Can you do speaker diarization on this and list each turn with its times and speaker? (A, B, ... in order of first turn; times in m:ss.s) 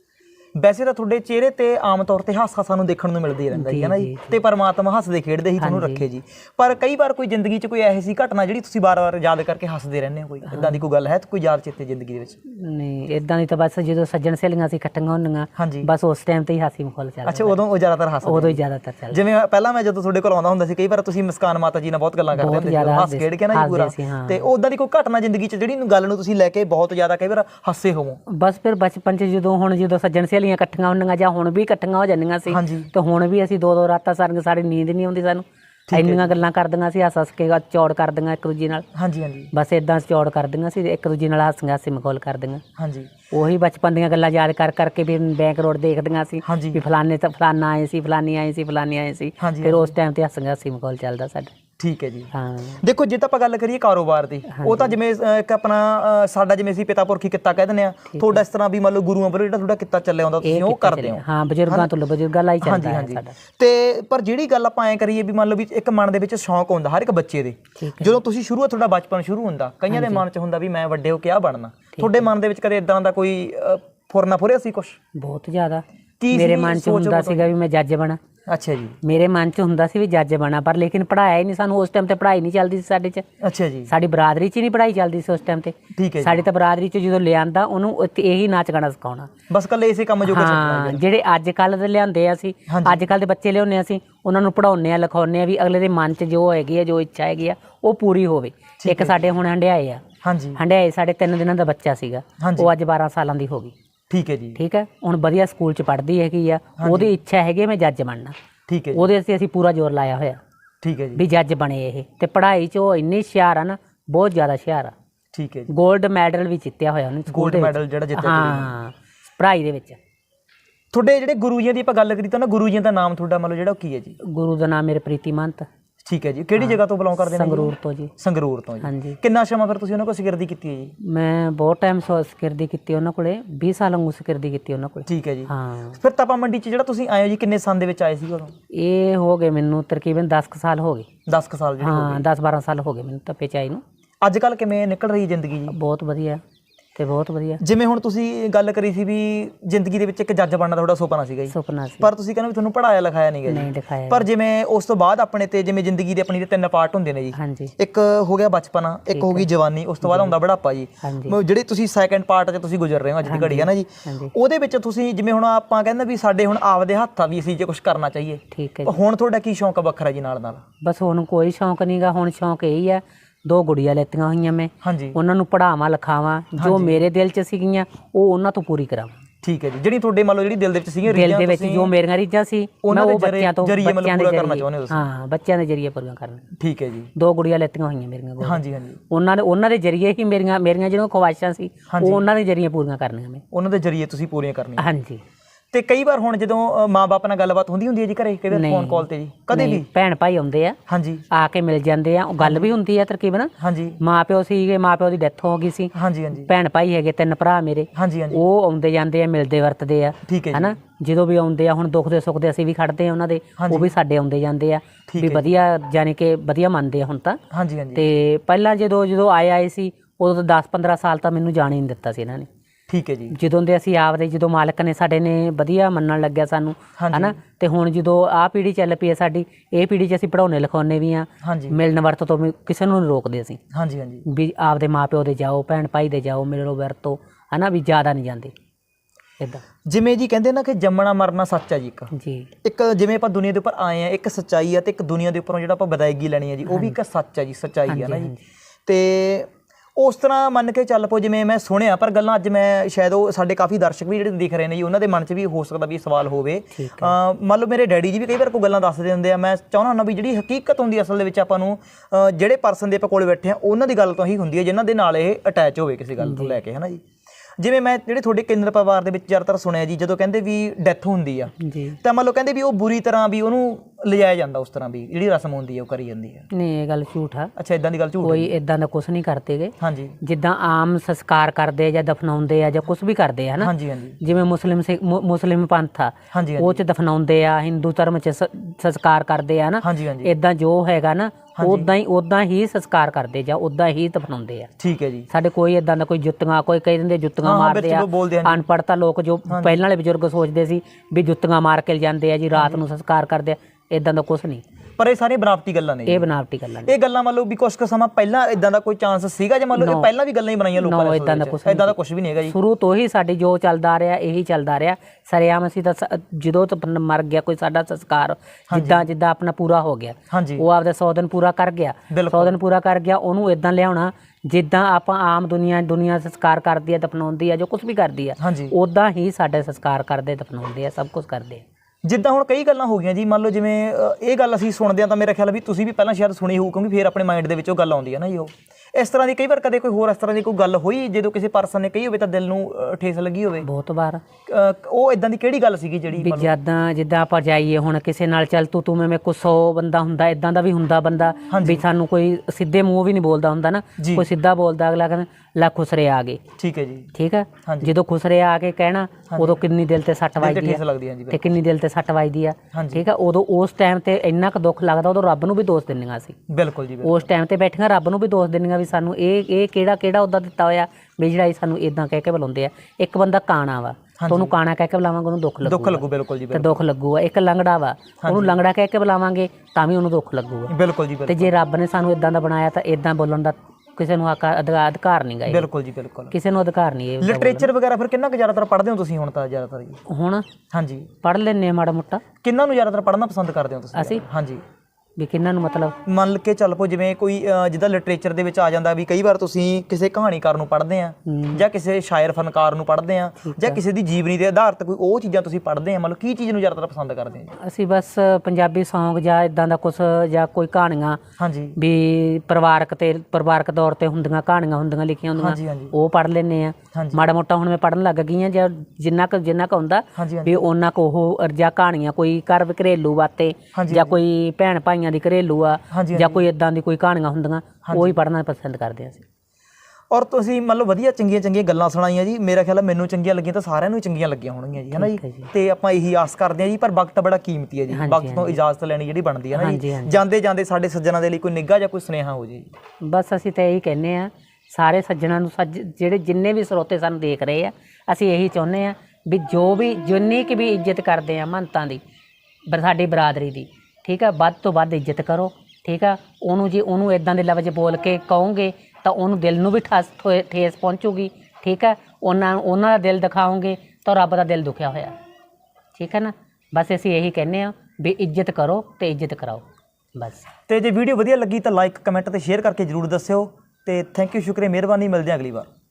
0:00.6-0:12.4 A
0:03.5-0:04.4 B
0:05.6-0:06.0 B
0:10.5-0:10.8 B
0:12.5-0:17.6 B
0:15.6-0:15.9 A
0:17.2-0:28.2 A
0:18.2-0:19.2 B
0:22.3-0:24.4 B
0:28.3-0:38.9 B
0:32.5-0:32.9 A
0:35.9-0:36.3 A
0:38.9-0:39.5 A
0:39.5-0:42.6 B
0:42.8-0:43.1 A
0:43.3-0:51.5 B
0:46.4-0:46.8 A
0:49.4-0:49.9 A
0:51.8-1:01.9 A
0:52.3-0:52.8 B
0:54.5-0:55.0 B
0:58.1-0:58.4 B
1:00.4-1:03.4 B
1:02.6-1:15.0 A
1:07.8-1:08.2 B
1:09.9-1:10.2 B
1:15.2-1:18.2 B
1:16.2-1:17.5 A
1:18.5-1:19.0 A
1:19.0-1:23.2 B
1:23.4-1:23.9 A
1:23.9-1:29.3 B
1:25.9-1:26.5 A
1:29.5-1:31.0 A
1:30.2-1:40.0 B
1:32.7-1:33.1 A
1:38.8-1:39.2 A
1:40.2-1:40.6 A
1:40.6-1:43.7 B
1:42.4-1:42.7 A
1:44.1-1:44.6 A
1:44.6-1:48.4 B
1:46.8-1:47.1 A
1:48.7-1:49.1 A
1:48.9-1:50.4 B
1:50.8-1:51.2 A
1:51.2-1:54.9 B
1:55.3-1:55.7 A
1:55.7-2:00.0 B
1:57.3-1:58.7 A
2:00.9-2:04.2 A
2:04.2-2:05.7 B
2:06.0-2:11.0 A
2:06.6-2:08.1 B
2:08.8-2:09.2 B
2:11.0-2:16.0 B
2:15.1-2:18.5 A
2:18.7-2:21.1 B
2:21.3-2:22.3 A
2:21.8-2:23.8 B
2:24.2-2:25.8 A
2:25.7-2:26.4 B
2:27.0-2:27.6 B
2:27.6-2:50.6 A
2:31.5-2:32.1 B
2:33.5-2:34.3 B
2:37.4-2:37.7 B
2:39.1-2:39.5 B
2:40.0-2:40.3 B
2:41.0-2:41.4 B
2:43.2-2:44.3 B
2:48.5-2:49.0 B
2:50.8-2:59.2 B
2:54.8-2:55.2 A
2:56.6-2:57.0 A
2:59.4-3:01.9 A
3:01.1-3:06.5 B
3:02.8-3:05.0 A
3:06.6-3:07.1 A
3:07.2-3:13.4 B
3:08.4-3:09.0 A
3:11.9-3:12.2 A
3:13.5-3:14.9 A
3:14.8-3:15.2 B
3:15.7-3:19.9 A
3:18.5-3:20.8 B
3:20.9-3:21.2 A
3:21.3-3:37.4 B
3:22.4-3:22.8 A
3:23.6-3:24.0 A
3:25.9-3:26.5 A
3:27.9-3:28.4 A
3:30.3-3:30.8 A
3:33.6-3:33.9 A
3:35.1-3:35.5 A
3:37.5-3:38.0 A
3:38.0-3:42.5 B
3:42.9-3:43.4 A
3:43.3-3:53.6 B
3:47.0-3:47.4 A
3:51.4-3:51.8 A
3:53.7-3:54.3 A
3:54.3-3:58.5 B
3:59.9-4:02.1 A
4:02.1-4:02.5 B
4:02.6-4:08.3 A
4:06.7-4:07.0 B
4:07.9-4:08.4 B
4:08.9-4:27.0 A
4:16.8-4:17.2 B
4:26.2-4:26.6 B
4:27.6-4:36.5 A
4:31.6-4:32.0 B
4:36.5-4:37.5 B
4:37.6-4:38.5 A
4:38.2-4:54.7 B
4:39.8-4:40.2 A
4:43.6-4:44.2 A
4:46.3-4:46.8 A
4:49.8-4:50.3 A
4:51.6-4:51.9 A
4:54.8-4:55.3 A
4:55.3-5:04.6 B
4:57.4-4:58.6 A
4:59.5-4:59.8 A
5:02.6-5:02.8 A
5:05.0-5:06.3 A
5:06.1-5:06.9 B
5:06.8-5:12.6 A
5:09.8-5:10.1 B
5:10.8-5:31.6 B
5:18.7-5:19.1 A
5:20.3-5:20.6 A
5:22.1-5:22.5 A
5:28.4-5:28.8 A
5:32.0-5:43.7 A
5:43.6-5:44.2 B
5:44.5-5:46.5 A
5:46.2-5:56.4 B
5:51.5-5:51.8 A
5:54.0-5:54.3 A
5:56.6-5:57.1 A
5:57.2-6:06.4 B
5:57.6-5:57.9 A
5:59.3-5:59.6 A
6:00.4-6:01.5 A
6:02.7-6:03.0 A
6:06.5-6:07.3 A
6:07.0-6:20.7 B
6:14.2-6:14.5 A
6:15.6-6:16.8 A
6:18.2-6:18.6 A
6:20.7-6:21.5 A
6:21.3-6:25.7 B
6:25.5-6:26.3 A
6:26.3-6:27.7 B
6:27.2-6:30.0 A
6:30.1-6:30.5 B
6:30.7-6:31.1 A
6:31.2-6:32.2 B
6:32.4-6:34.6 A
6:33.9-6:34.2 B
6:35.2-6:36.0 B
6:36.1-6:47.5 A
6:41.3-6:41.6 B
6:43.4-6:43.8 B
6:47.6-6:51.2 B
6:51.4-6:51.8 A
6:51.8-7:09.2 B
6:55.4-6:56.0 A
6:56.9-6:57.2 A
7:00.2-7:00.6 A
7:03.7-7:04.2 A
7:05.9-7:06.5 A
7:07.9-7:08.2 A
7:10.1-7:22.7 A
7:14.9-7:15.5 B
7:17.9-7:18.6 B
7:19.5-7:20.2 B
7:23.0-7:32.0 B
7:32.7-7:45.2 B
7:46.0-7:50.5 B
7:50.7-7:55.7 A